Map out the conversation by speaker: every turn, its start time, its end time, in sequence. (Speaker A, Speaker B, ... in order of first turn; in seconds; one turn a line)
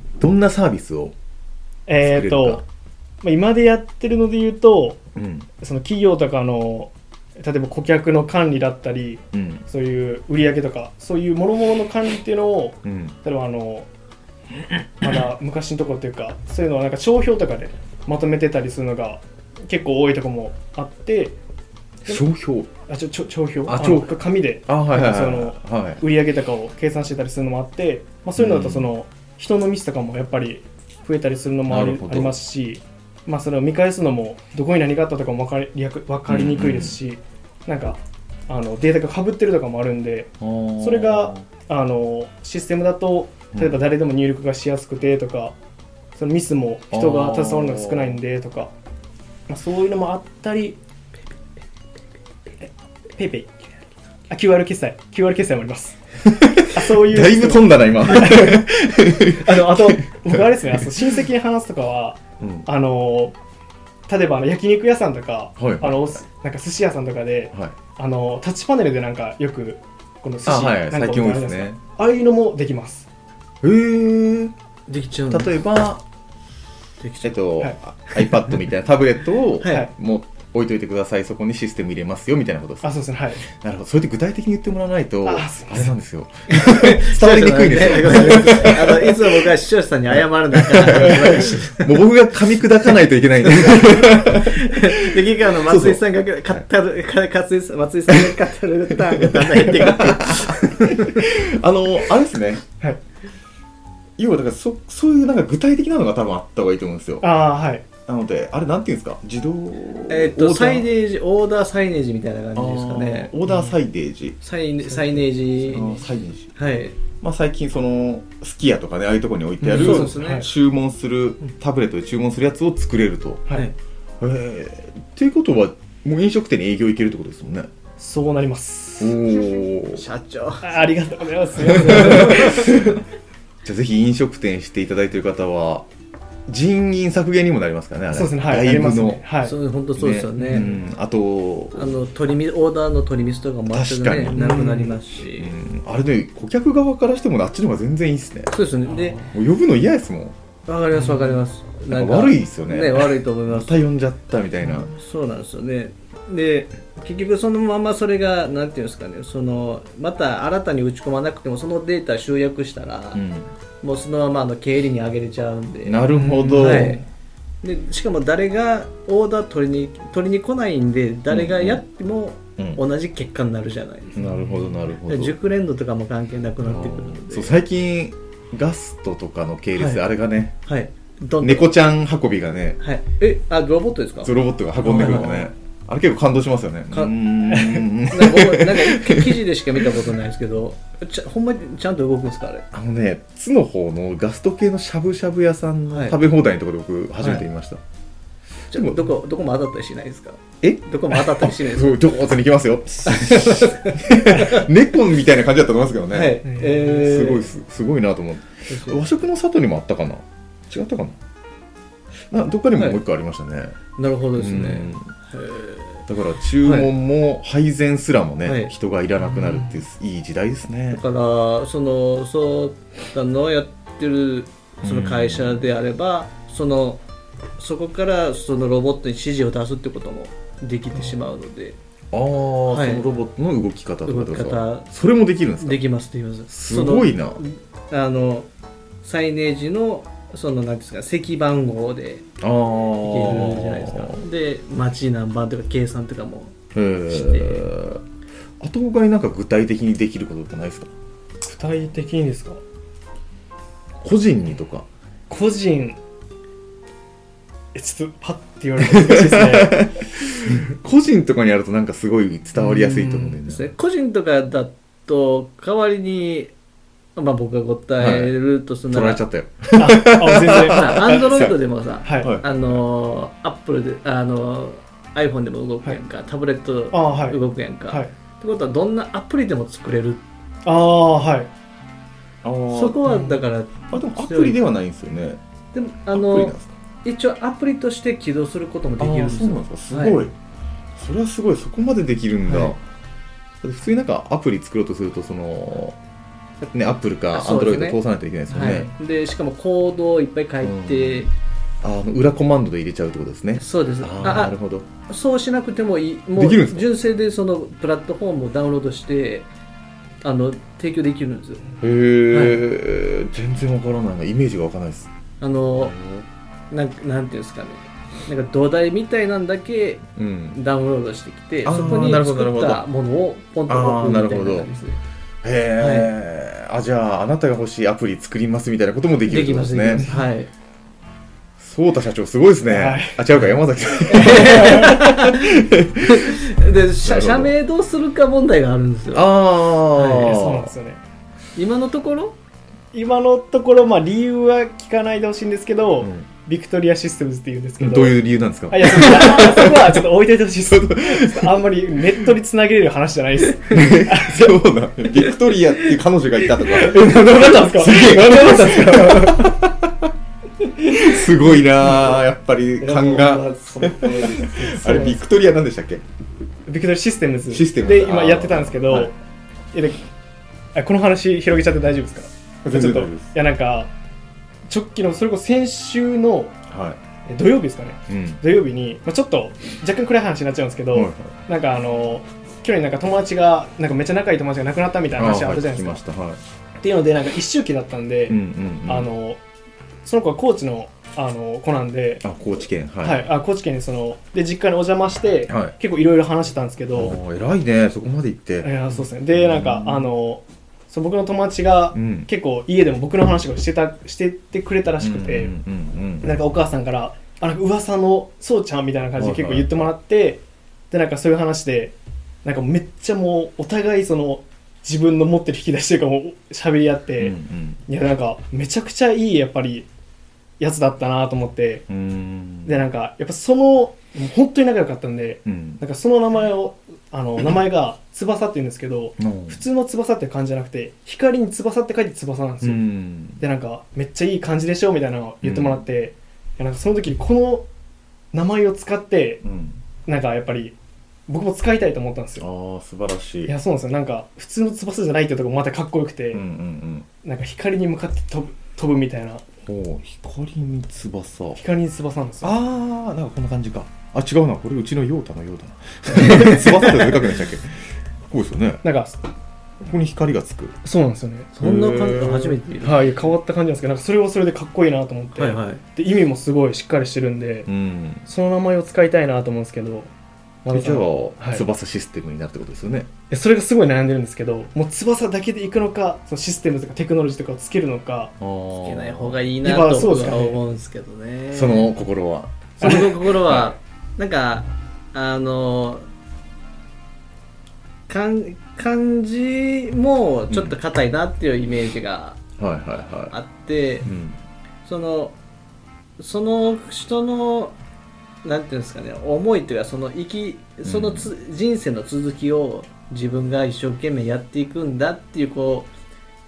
Speaker A: 0.2-1.1
Speaker B: 1.9-2.6
Speaker A: 2.0-2.6
Speaker B: 3.2-5.0
Speaker A: 5.1-5.5
Speaker B: 5.6-13.9
Speaker A: 9.3-9.6
Speaker A: 12.8-13.1
Speaker B: 15.0-21.4
Speaker A: 22.1-22.7
Speaker B: 22.9-45.5
Speaker A: 23.7-26.0
Speaker A: 28.4-28.9
Speaker A: 31.7-32.3
Speaker A: 36.3-37.0
Speaker A: 40.4-41.5
Speaker A: 43.5-43.8
Speaker B: 46.1-48.7
Speaker A: 46.9-48.2
Speaker B: 49.5-50.8
Speaker B: 53.1-53.8
Speaker B: 54.3-56.0
Speaker A: 56.2-60.9
Speaker B: 56.6-58.6
Speaker B: 59.3-63.3
Speaker A: 62.4-62.7
Speaker B: 64.1-73.1
Speaker A: 65.6-66.2
Speaker A: 70.4-71.8
Speaker A: 73.6-74.5
Speaker C: 74.9-75.5
Speaker A: 75.3-76.0
Speaker C: 77.0-77.4
Speaker A: 77.2-82.9
Speaker C: 79.6-79.9
Speaker B: 82.8-83.4
Speaker A: 83.4-89.5
Speaker B: 85.2-85.9
Speaker C: 86.5-92.0
Speaker A: 90.5-96.6
Speaker C: 93.4-100.9
Speaker A: 99.0-102.6
Speaker A: 104.2-107.2
Speaker B: 107.2-107.8
Speaker A: 108.1-110.9
Speaker C: 110.1-113.3
Speaker A: 112.5-114.4
Speaker B: 113.5-113.7
Speaker C: 114.4-116.0
Speaker A: 115.7-116.5
Speaker C: 116.5-117.0
Speaker A: 117.2-123.5
Speaker B: 119.6-120.5
Speaker C: 119.7-120.5
Speaker A: 124.2-127.7
Speaker B: 128.0-129.2
Speaker A: 129.0-130.0
Speaker C: 129.9-130.7
Speaker B: 130.6-133.0
Speaker A: 131.6-133.0
Speaker C: 131.8-132.7
Speaker A: 133.6-135.9
Speaker A: 136.5-139.2
Speaker B: 138.1-139.5
Speaker C: 139.4-140.7
Speaker A: 139.9-142.0
Speaker B: 140.4-140.7
Speaker C: 141.7-145.5
Speaker A: 143.7-148.5
Speaker B: 144.3-144.9
Speaker C: 148.5-149.3
Speaker A: 149.3-150.3
Speaker C: 150.7-153.8
Speaker B: 151.0-151.3
Speaker A: 151.9-154.9
Speaker C: 154.9-163.2
Speaker A: 163.1-163.5
Speaker C: 163.8-167.0
Speaker A: 165.8-167.0
Speaker B: 166.1-166.9
Speaker C: 167.6-174.2
Speaker A: 171.3-171.8
Speaker A: 174.2-175.3
Speaker B: 174.2-174.8
Speaker C: 175.1-177.5
Speaker A: 176.7-180.6
Speaker C: 179.8-180.0
Speaker C: 180.7-181.7
Speaker A: 181.4-182.8
Speaker C: 182.8-185.5
Speaker A: 184.2-189.4
Speaker C: 186.9-192.7
Speaker A: 192.7-197.8
Speaker C: 195.9-196.2
Speaker C: 198.7-202.1
Speaker A: 198.7-199.0
Speaker A: 200.6-211.2
Speaker C: 203.0-204.7
Speaker C: 206.1-207.5
Speaker B: 206.4-206.8
Speaker C: 208.7-209.0
Speaker A: 212.3-213.8
Speaker C: 214.0-216.0
Speaker A: 214.3-215.1
Speaker A: 216.1-221.0
Speaker C: 216.6-216.9
Speaker C: 218.4-218.7
Speaker C: 220.9-227.0
Speaker A: 224.8-225.7
Speaker C: 227.6-231.8
Speaker A: 232.1-235.8
Speaker C: 232.7-233.0
Speaker C: 234.0-234.9
Speaker C: 235.6-238.5
Speaker A: 236.5-237.4
Speaker C: 239.0-242.3
Speaker A: 242.4-244.2
Speaker C: 243.0-246.5
Speaker A: 246.7-248.0
Speaker C: 247.1-247.7
Speaker A: 248.6-250.9
Speaker B: 251.4-252.6
Speaker A: 254.0-254.9
Speaker B: 255.3-256.0
Speaker B: 257.7-259.9
Speaker A: 258.8-263.7
Speaker B: 262.7-263.2
Speaker C: 263.4-266.5
Speaker C: 267.1-269.2
Speaker A: 268.0-268.3
Speaker A: 268.9-271.6
Speaker B: 269.8-271.4
Speaker C: 270.5-280.2
Speaker B: 272.0-272.4
Speaker A: 272.2-272.8
Speaker B: 276.9-278.1
Speaker B: 280.6-281.5
Speaker A: 282.4-283.0
Speaker C: 282.7-284.6
Speaker B: 283.1-283.4
Speaker A: 283.9-285.4
Speaker C: 285.7-290.2
Speaker A: 286.1-286.7
Speaker A: 289.0-290.3
Speaker A: 290.9-292.8
Speaker C: 292.5-292.7
Speaker A: 293.6-296.0
Speaker A: 296.7-298.9
Speaker C: 297.3-298.0
Speaker C: 298.5-301.3
Speaker A: 300.6-301.3
Speaker A: 301.8-304.9
Speaker C: 303.6-304.6
Speaker C: 305.1-309.5
Speaker A: 306.4-306.9
Speaker C: 310.2-311.7
Speaker A: 311.8-315.1
Speaker C: 312.3-312.6
Speaker C: 315.4-315.9
Speaker A: 315.8-316.2
Speaker C: 316.7-325.0
Speaker A: 320.2-320.6
Speaker A: 321.6-322.8
Speaker A: 323.7-324.7
Speaker A: 325.4-330.1
Speaker C: 325.8-326.1
Speaker C: 329.3-330.5
Speaker A: 331.6-336.4
Speaker B: 332.6-333.2
Speaker C: 334.1-339.3
Speaker B: 334.3-334.9
Speaker A: 337.0-337.5
Speaker A: 339.1-340.7
Speaker C: 339.9-340.3
Speaker B: 340.1-341.0
Speaker C: 341.6-342.4
Speaker B: 342.9-348.2
Speaker A: 346.0-346.3
Speaker A: 347.8-350.0
Speaker B: 348.7-354.5
Speaker A: 350.6-351.7
Speaker A: 353.7-360.1
Speaker B: 356.6-359.6
Speaker A: 360.8-366.0
Speaker C: 362.8-365.0
Speaker B: 364.6-365.2
Speaker B: 366.7-369.1
Speaker A: 367.5-369.1
Speaker B: 369.7-370.0
Speaker B: 370.7-373.9
Speaker A: 372.6-373.3
Speaker B: 374.7-376.5
Speaker A: 376.7-377.0
Speaker B: 377.2-386.0
Speaker A: 378.1-378.4
Speaker A: 380.9-381.3
Speaker A: 385.1-386.4
Speaker B: 386.8-389.4
Speaker A: 388.3-389.1
Speaker B: 390.0-392.2
Speaker A: 392.2-393.2
Speaker B: 393.0-397.2
Speaker A: 395.5-395.7
Speaker A: 396.9-400.1
Speaker B: 398.6-405.5
Speaker A: 401.9-402.3
Speaker A: 405.0-406.3
Speaker B: 406.2-419.9
Speaker A: 409.2-409.8
Speaker A: 417.2-417.8
Speaker B: 420.6-421.9
Speaker A: 421.9-422.8
Speaker B: 422.6-432.8
Speaker A: 425.4-425.8
Speaker A: 429.2-429.6
Speaker A: 432.6-433.4
Speaker B: 433.4-437.6
Speaker A: 435.4-435.8
Speaker B: 438.3-439.4
Speaker A: 439.4-439.8
Speaker B: 440.1-440.7
Speaker B: 441.3-442.4
Speaker A: 442.4-443.5
Speaker B: 443.4-446.4
Speaker A: 446.3-447.1
Speaker B: 447.2-449.4
Speaker A: 449.6-451.6
Speaker B: 451.6-452.5
Speaker A: 452.4-458.8
Speaker B: 458.8-459.2
Speaker A: 459.8-460.8
Speaker B: 460.8-461.5
Speaker C: 461.5-463.1
Speaker A: 461.6-462.6
Speaker B: 462.8-467.7
Speaker C: 465.4-465.8
Speaker A: 467.6-468.2
Speaker B: 468.2-470.1
Speaker B: 470.6-471.6
Speaker A: 470.7-473.1
Speaker B: 473.3-478.3
Speaker A: 478.4-479.4
Speaker C: 478.7-481.9
Speaker B: 479.6-480.6
Speaker A: 481.5-483.7
Speaker C: 482.8-486.1
Speaker B: 482.8-483.1
Speaker C: 488.1-492.4
Speaker A: 490.5-490.8
Speaker A: 492.6-493.3
Speaker C: 493.3-494.1
Speaker A: 494.0-494.4
Speaker C: 494.8-495.4
Speaker C: 496.2-497.8
Speaker C: 498.4-505.9
Speaker A: 500.8-501.3